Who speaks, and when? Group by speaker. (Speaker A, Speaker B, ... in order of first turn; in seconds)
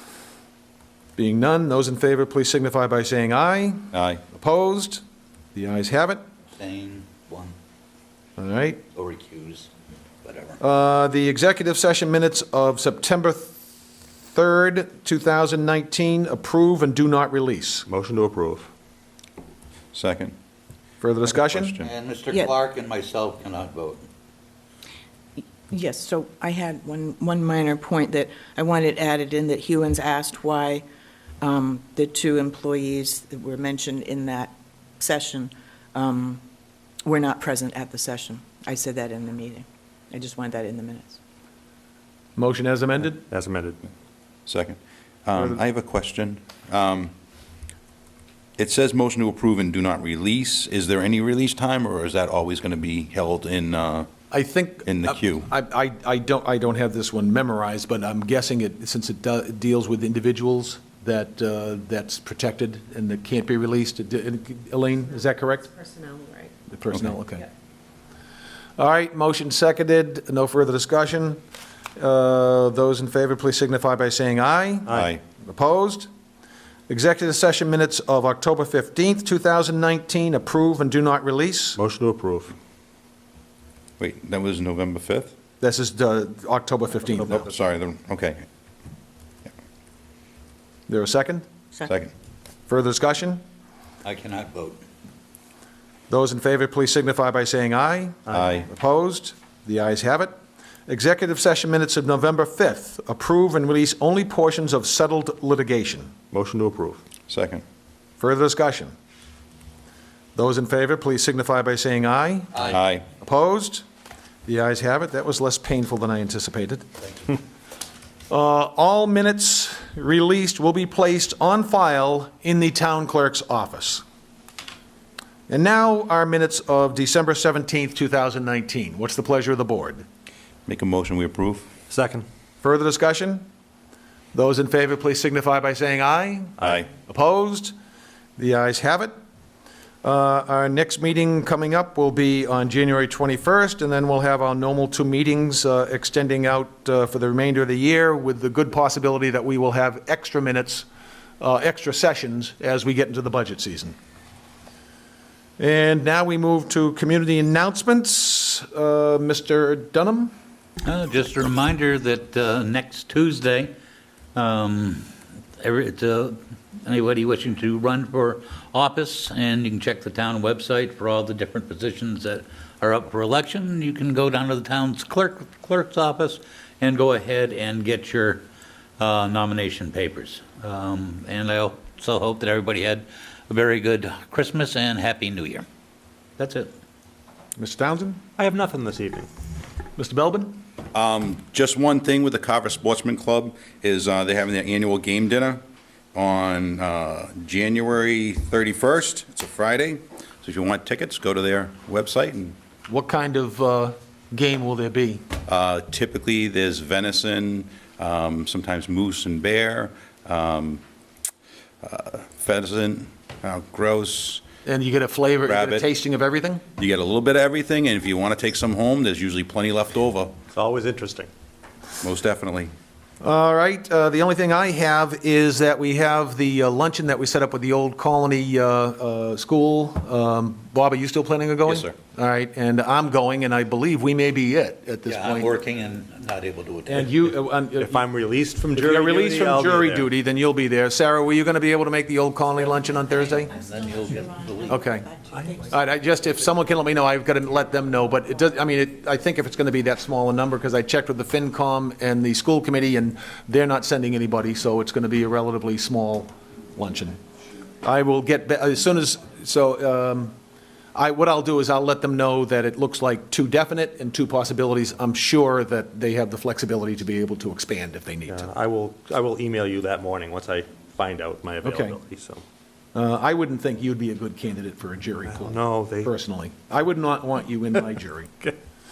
Speaker A: 1.2-5.0, 5.5-6.2, 8.4-8.8, 10.6-13.6, 14.3-17.9, 21.0-21.8, 42.4-43.2, 45.4-45.6, 54.3-65.7, 66.7-67.5, 68.8-71.4, 72.0-76.1, 76.9-81.8, 85.6-87.5, 90.9-91.5, 92.7-93.4, 96.1-100.3, 100.9-106.1, 108.2-108.9, 110.3-112.5, 113.1-113.8, 114.5-116.8, 118.3-124.0, 125.5-130.1, 132.6-133.5, 134.3-137.7, 138.4-139.1, 140.0-150.9, 151.4-154.0, 155.6-160.3, 187.6-188.2, 190.0-190.6, 202.9-205.2, 214.7-216.6, 223.2-235.6, 236.9-238.0, 238.8-243.5, 244.7-245.1, 245.7-257.2, 257.8-260.3, 260.9-268.5, 271.6-272.0, 272.9-278.4
Speaker B: 3.9-4.2, 19.9-20.3, 21.5-21.9, 44.5-47.1, 48.6-54.1, 54.9-55.5, 74.9-75.2, 84.0-85.3, 87.3-88.5, 91.9-92.1, 98.3-98.7, 107.3-107.6, 112.6-113.0, 130.7-131.7, 190.9-195.6, 196.1-202.6, 205.5-210.8, 211.8-214.4, 215.4-215.9, 216.8-220.4, 222.0-222.7, 231.7-231.9
Speaker C: 6.6-7.5, 8.9-9.7, 10.2-10.6, 21.8-24.0, 94.0-94.8, 160.8-163.7, 164.3-178.4, 179.0-185.7, 186.4-186.7, 235.1-237.1, 243.1-244.8
Speaker D: 17.9-18.7, 43.3-43.8, 81.8-82.5, 106.3-107.0, 131.9-132.3, 188.4-189.3, 220.5-221.3, 237.8-240.1, 245.3-245.6, 268.3-272.4, 275.3-276.1
Speaker E: 25.7-30.8, 31.4-36.4, 37.0-41.2, 65.7-66.5, 243.2-245.8